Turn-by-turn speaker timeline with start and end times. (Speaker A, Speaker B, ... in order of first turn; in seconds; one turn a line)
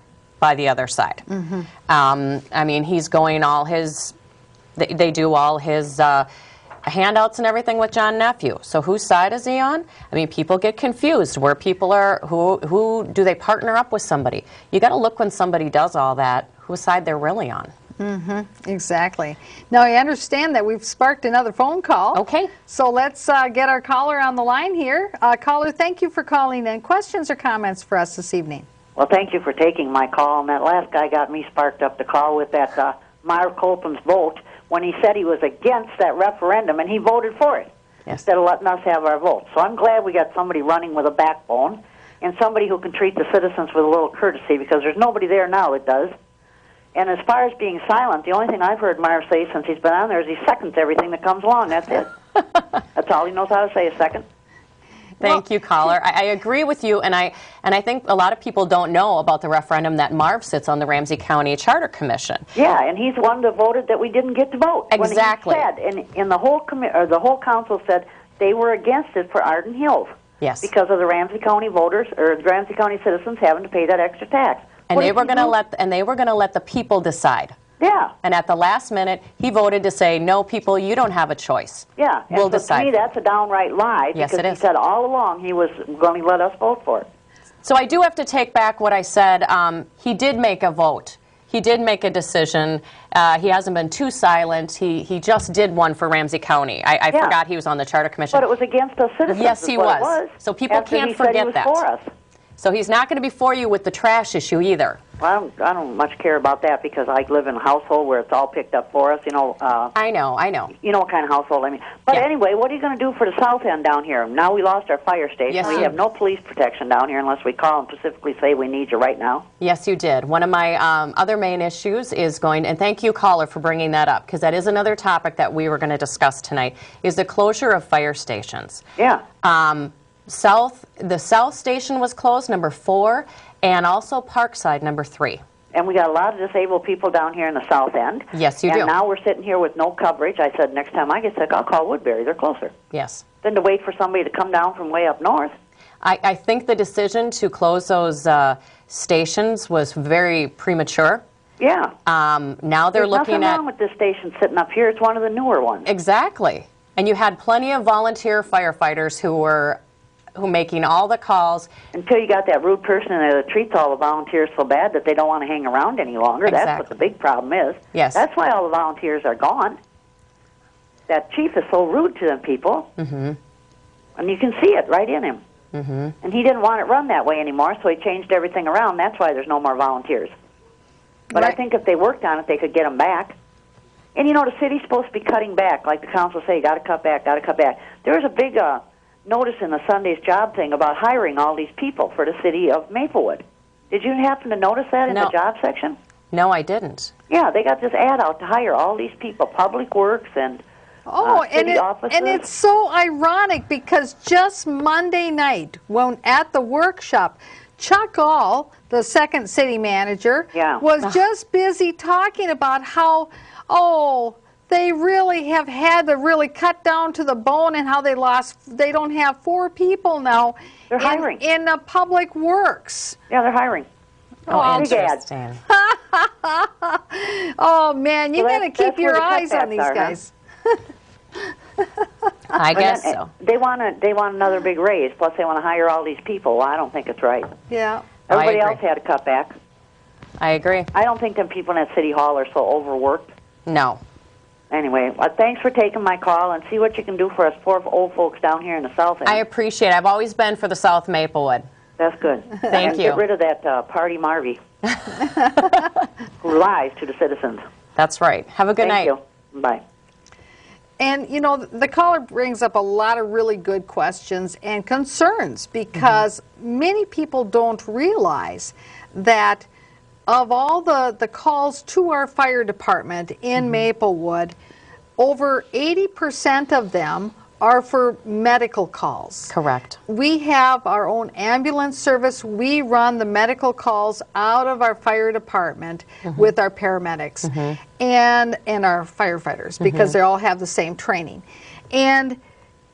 Speaker A: 0.4-1.2
Speaker B: 1.3-1.7
Speaker A: 1.9-4.1
Speaker A: 4.8-6.3
Speaker A: 6.8-17.7
Speaker B: 18.0-28.6
Speaker A: 22.1-22.5
Speaker C: 28.9-37.7
Speaker C: 38.2-46.1
Speaker C: 46.9-52.1
Speaker C: 52.9-54.2
Speaker A: 55.2-62.4
Speaker C: 62.5-75.5
Speaker A: 64.9-65.7
Speaker A: 70.4-70.7
Speaker A: 74.9-77.5
Speaker C: 77.8-78.1
Speaker A: 78.2-82.9
Speaker C: 82.0-87.1
Speaker A: 84.1-84.6
Speaker A: 87.6-98.5
Speaker C: 98.3-102.0
Speaker A: 99.3-101.8
Speaker A: 102.6-105.0
Speaker C: 105.2-109.9
Speaker A: 109.9-110.7
Speaker C: 110.8-119.4
Speaker A: 115.5-115.9
Speaker A: 119.6-128.8
Speaker C: 129.0-129.2
Speaker A: 129.4-135.4
Speaker C: 135.7-142.7
Speaker A: 138.3-138.9
Speaker A: 142.9-143.2
Speaker C: 143.4-145.5
Speaker A: 146.0-151.2
Speaker C: 151.6-151.9
Speaker A: 152.1-153.6
Speaker C: 152.9-155.9
Speaker A: 155.8-159.8
Speaker A: 160.3-161.7
Speaker C: 161.9-169.8
Speaker A: 166.4-167.0
Speaker A: 167.9-168.2
Speaker C: 171.1-172.9
Speaker A: 173.0-173.4
Speaker C: 174.2-175.4
Speaker A: 175.7-176.1
Speaker C: 176.2-180.3
Speaker C: 181.3-183.4
Speaker C: 184.1-196.0
Speaker A: 195.1-195.3
Speaker A: 196.3-197.1
Speaker C: 197.3-200.6
Speaker B: 201.1-223.2
Speaker C: 201.2-202.5
Speaker C: 210.5-210.8
Speaker C: 220.9-221.4
Speaker C: 223.3-223.9
Speaker B: 224.5-224.9
Speaker A: 224.5-225.6
Speaker C: 224.6-225.2
Speaker B: 225.7-230.8
Speaker C: 228.4-230.2
Speaker A: 232.5-233.3
Speaker C: 232.7-237.5
Speaker B: 237.7-238.1
Speaker C: 238.3-239.5
Speaker A: 238.3-238.8
Speaker A: 240.4-240.9
Speaker C: 240.9-243.3
Speaker A: 243.7-244.0
Speaker C: 244.7-249.4
Speaker A: 249.2-251.7
Speaker C: 252.0-254.6
Speaker A: 252.7-253.2
Speaker C: 256.4-257.6
Speaker A: 257.9-259.1
Speaker C: 258.8-259.8
Speaker B: 261.0-269.7
Speaker B: 270.3-274.5
Speaker B: 275.2-279.5
Speaker A: 279.5-280.0
Speaker B: 280.1-292.4
Speaker A: 287.4-287.8
Speaker A: 289.8-290.1